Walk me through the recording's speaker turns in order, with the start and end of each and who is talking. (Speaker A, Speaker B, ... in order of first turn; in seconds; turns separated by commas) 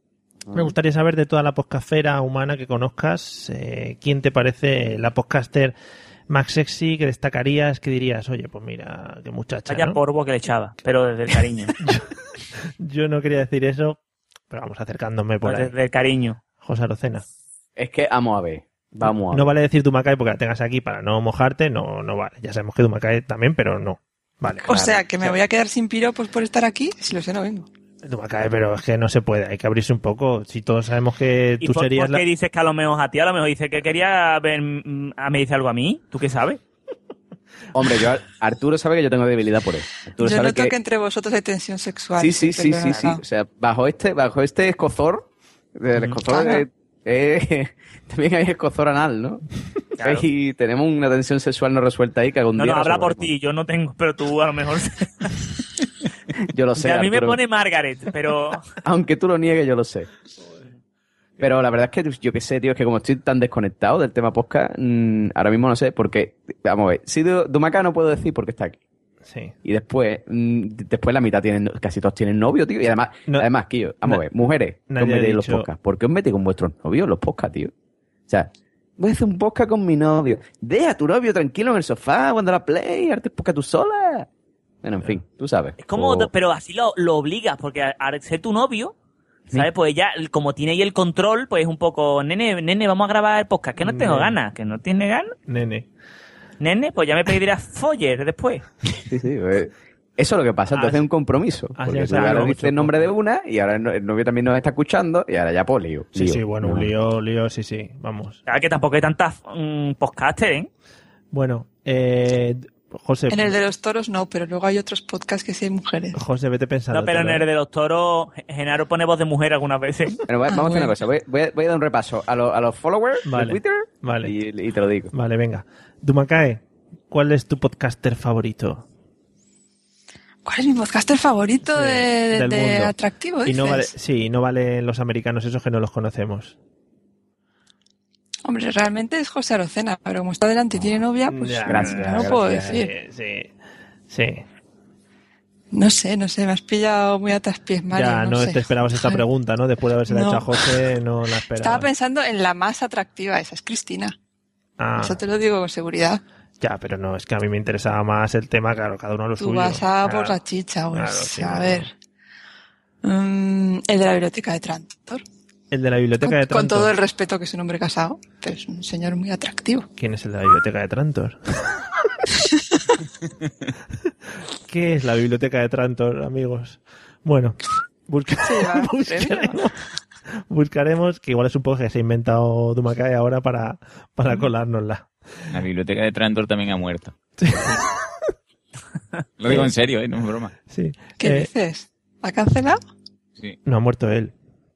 Speaker A: 0.5-5.8, Speaker A: 6.3-10.0, Speaker B: 9.7-11.8, Speaker A: 11.8-12.1, Speaker A: 12.6-14.0, Speaker A: 14.5-15.7, Speaker B: 15.4-16.4, Speaker A: 16.6-17.2, Speaker C: 17.8-19.5, Speaker A: 19.0-24.8, Speaker C: 24.7-25.4, Speaker D: 24.7-27.7, Speaker A: 28.0-32.2, Speaker B: 31.6-36.6, Speaker C: 37.7-40.8, Speaker D: 40.2-43.2, Speaker C: 42.2-49.4, Speaker D: 46.3-46.6, Speaker B: 50.0-50.3, Speaker C: 50.0-53.3, Speaker B: 52.6-55.5, Speaker C: 56.5-57.4, Speaker B: 56.8-58.7, Speaker C: 58.8-60.1, Speaker C: 61.4-68.8, Speaker A: 69.2-69.5, Speaker C: 69.7-77.7, Speaker A: 74.9-75.7, Speaker C: 78.3-84.3, Speaker C: 84.8-86.3, Speaker B: 85.8-89.0, Speaker B: 89.5-95.3, Speaker A: 93.8-94.4, Speaker A: 95.5-95.9, Speaker B: 96.6-98.7, Speaker C: 99.1-106.9, Speaker A: 100.7-101.0, Speaker A: 101.8-103.1, Speaker A: 106.2-108.4, Speaker B: 108.5-110.7, Speaker A: 111.3-113.6, Speaker D: 113.3-116.2, Speaker A: 116.1-117.5, Speaker B: 116.9-120.2, Speaker C: 120.3-125.1, Speaker D: 120.5-120.9, Speaker A: 123.2-124.3, Speaker A: 125.1-128.8, Speaker D: 130.4-133.9, Speaker A: 131.7-132.9, Speaker A: 133.4-136.6, Speaker D: 138.5-142.9, Speaker A: 141.3-143.5, Speaker C: 141.6-142.8, Speaker A: 144.1-144.4, Speaker D: 145.7-149.2, Speaker A: 147.9-151.9, Speaker D: 150.1-150.8, Speaker D: 151.6-154.2, Speaker A: 154.8-155.2, Speaker D: 155.0-156.2, Speaker A: 156.6-160.4, Speaker D: 159.4-161.9, Speaker A: 160.9-161.9, Speaker D: 163.0-165.2, Speaker A: 165.7-166.9, Speaker D: 166.2-169.9, Speaker A: 170.0-171.7, Speaker A: 174.7-185.1, Speaker D: 178.4-179.6, Speaker E: 185.5-187.1, Speaker A: 187.4-187.8, Speaker E: 189.4-190.5, Speaker A: 190.7-191.5, Speaker D: 191.2-192.8, Speaker A: 193.7-194.3